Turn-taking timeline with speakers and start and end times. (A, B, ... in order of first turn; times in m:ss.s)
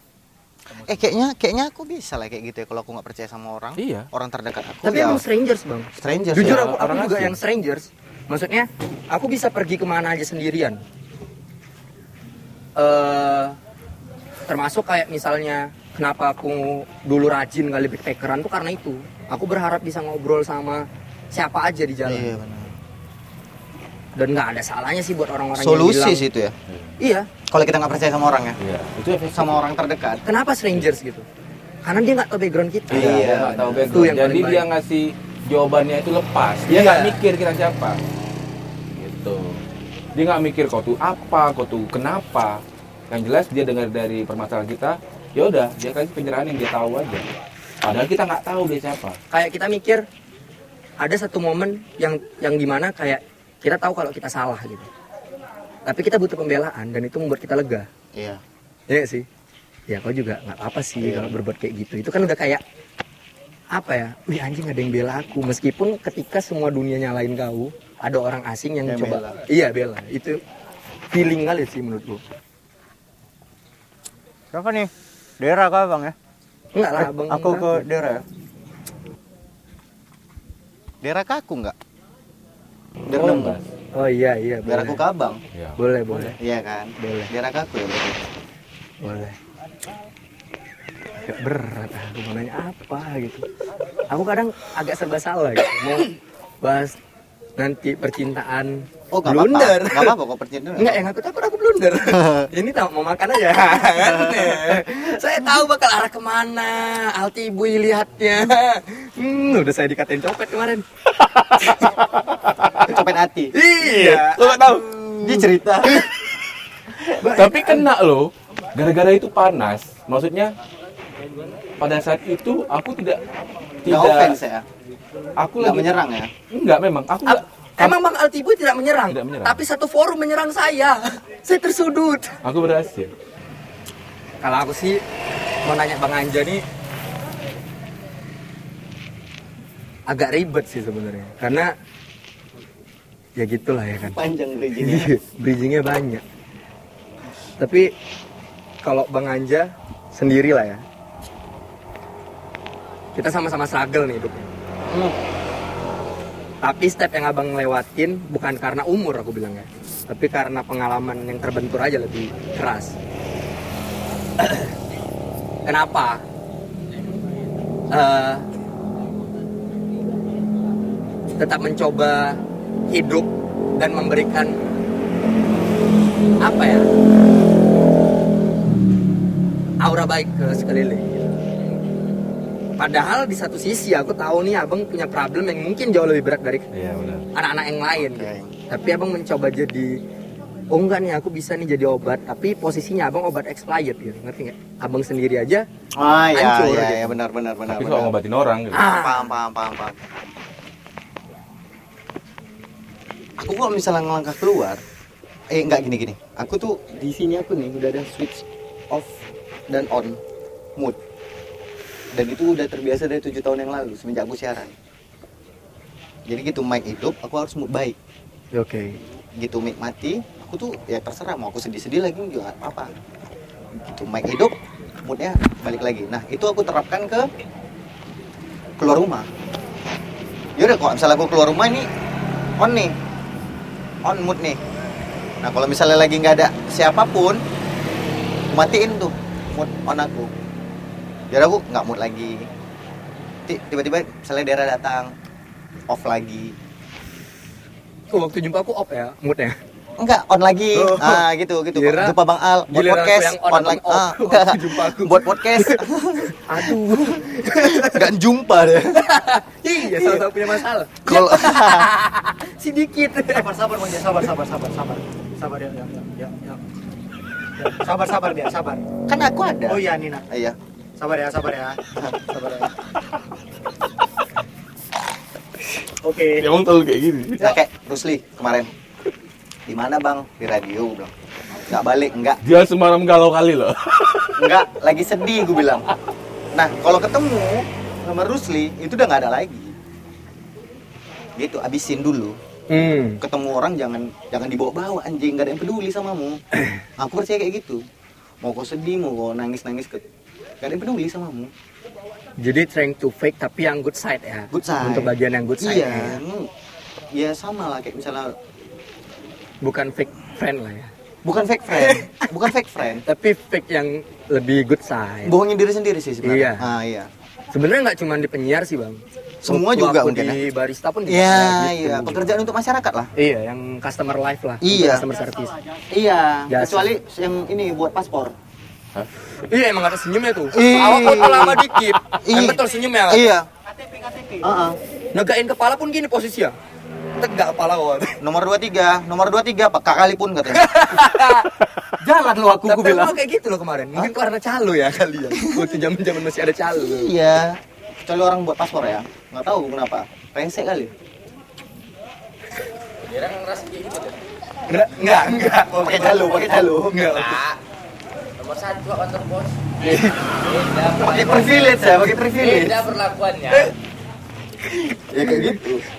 0:00.8-0:05.2 A
0:03.8-0:04.1 B
0:04.8-0:10.8 C
0:06.0-0:06.6 A
0:06.4-0:07.4 B
0:12.8-0:13.6 C
0:14.5-0:22.4 C
0:22.1-0:22.7 A
0:24.2-0:26.2 C
0:25.6-0:26.5 A
0:26.7-0:27.0 B
0:27.0-0:27.3 C
0:27.5-0:28.6 A
0:28.6-0:29.6 B
0:29.3-0:30.2 A
0:30.2-0:31.3 C
0:31.8-0:34.6 C
0:32.9-0:34.0 A
0:32.9-0:38.0 B
0:36.7-0:37.2 C
0:38.9-0:39.6 B
0:40.2-0:47.3 B
0:47.8-0:49.2 B
0:49.3-0:50.0 C
0:51.0-0:54.9 C
0:55.9-0:57.9 C
0:58.1-0:58.4 A
0:58.9-0:59.3 C
0:59.9-1:02.6 C
1:01.0-1:01.3 A
1:03.7-1:10.4 C
1:08.9-1:09.4 A
1:11.1-1:12.2 C
1:14.5-1:14.8 D
1:14.6-1:14.9 A
1:15.4-1:16.1 D
1:15.7-1:16.1 A
1:16.7-1:17.8 C
1:17.3-1:18.2 D
1:17.3-1:18.2 A
1:21.0-1:21.8 A
1:23.1-1:23.6 A
1:23.1-1:23.7 B
1:23.9-1:25.0 C
1:24.6-1:25.4 A
1:25.5-1:26.3 B
1:25.8-1:26.4 C
1:26.4-1:28.3 A
1:27.0-1:27.3 C
1:29.0-1:29.4 C
1:31.2-1:33.4 C
1:34.1-1:37.0 C
1:37.6-1:40.2 C
1:39.1-1:41.0 A
1:40.8-1:50.8 C
1:42.1-1:42.5 A
1:44.0-1:44.6 A
1:51.2-1:51.8 B
1:51.6-1:51.9 C
1:52.3-1:52.8 B
1:52.8-1:53.5 A
1:53.5-1:55.4 C
1:53.8-1:55.0 B
1:55.2-1:56.0 A
1:57.2-1:57.9 C
1:57.2-2:00.5 B
2:01.8-2:03.2 B
2:03.8-2:04.4 B
2:03.9-2:04.6 A
2:05.4-2:06.0 B
2:05.6-2:06.3 A
2:06.5-2:08.0 B
2:07.3-2:12.4 C
2:09.1-2:09.6 B
2:12.4-2:13.1 B
2:14.4-2:15.0 C
2:15.6-2:16.6 C
2:20.1-2:21.7 C
2:23.4-2:24.2 C
2:24.0-2:25.2 A
2:24.8-2:26.2 C
2:27.6-2:27.9 C
2:28.8-2:30.8 C
2:33.2-2:34.5 C
2:36.6-2:43.0 C
2:44.4-2:44.8 C
2:45.6-2:46.2 C
2:47.9-2:48.5 C
2:51.4-2:54.7 C
2:56.4-2:56.9 C
2:59.8-3:01.4 C
3:02.8-3:06.7 C
3:06.7-3:07.2 B
3:07.4-3:10.0 C
3:08.0-3:08.5 A
3:10.7-3:15.7 C
3:16.0-3:18.1 A
3:16.3-3:17.2 C
3:17.7-3:18.9 B
3:18.7-3:19.3 C
3:18.8-3:20.0 A
3:23.4-3:24.8 A
3:25.5-3:29.2 A
3:29.7-3:30.2 A
3:32.1-3:34.7 A
3:36.3-3:38.0 A
3:38.5-3:39.0 C
3:39.4-3:42.9 A
3:43.8-3:47.3 A
3:48.8-3:49.3 A
3:50.6-3:51.9 A
3:52.6-3:52.9 A
3:54.0-3:54.6 A
3:55.4-3:57.4 A
3:58.5-4:00.3 A
4:01.3-4:02.5 A
4:03.5-4:05.1 A
4:05.9-4:06.6 A
4:08.1-4:09.6 C
4:10.0-4:16.7 A
4:10.7-4:12.2 C
4:12.7-4:18.1 C
4:17.4-4:19.2 A
4:19.0-4:23.5 C
4:19.9-4:20.4 A
4:21.0-4:21.9 A
4:23.3-4:26.6 D
4:27.6-4:28.8 D
4:29.1-4:30.6 A
4:29.7-4:30.2 D
4:31.0-4:32.7 D
4:36.0-4:36.5 D
4:36.4-4:37.6 B
4:37.4-4:38.7 A
4:39.7-4:41.1 A
4:41.7-4:42.4 A
4:42.4-4:44.5 B
4:44.4-4:45.8 A
4:46.5-4:49.8 A
4:51.4-4:52.4 A
4:52.7-4:53.2 C
4:53.2-4:56.4 A
4:57.0-4:57.8 A
4:58.4-5:00.0 A
5:00.6-5:01.5 A
5:02.4-5:06.2 C
5:04.5-5:06.5 A
5:07.1-5:08.4 A
5:09.6-5:10.9 C
5:11.2-5:13.0 A
5:11.8-5:12.3 C
5:13.1-5:15.3 C
5:15.2-5:17.1 A
5:16.2-5:16.6 C
5:17.5-5:22.3 C
5:19.4-5:20.4 A
5:21.1-5:23.1 A
5:23.2-5:25.5 C
5:24.6-5:25.1 A
5:25.9-5:28.4 A
5:26.5-5:27.0 C
5:29.5-5:33.3 C
5:30.5-5:31.6 A
5:32.2-5:33.5 A
5:34.4-5:34.8 A
5:35.1-5:36.6 C
5:37.2-5:38.2 C
5:38.2-5:40.8 A
5:40.5-5:41.5 C
5:42.0-5:43.1 A
5:42.6-5:47.2 C
5:45.4-5:45.7 A
5:46.7-5:50.9 A
5:53.0-5:54.3 E
5:54.7-5:57.4 C
5:55.7-5:57.1 A
5:57.1-5:57.6 E
5:58.4-5:59.7 E
5:59.8-6:00.2 C
6:00.3-6:03.7 E
6:01.0-6:02.8 A
6:04.7-6:05.6 C
6:05.1-6:05.8 A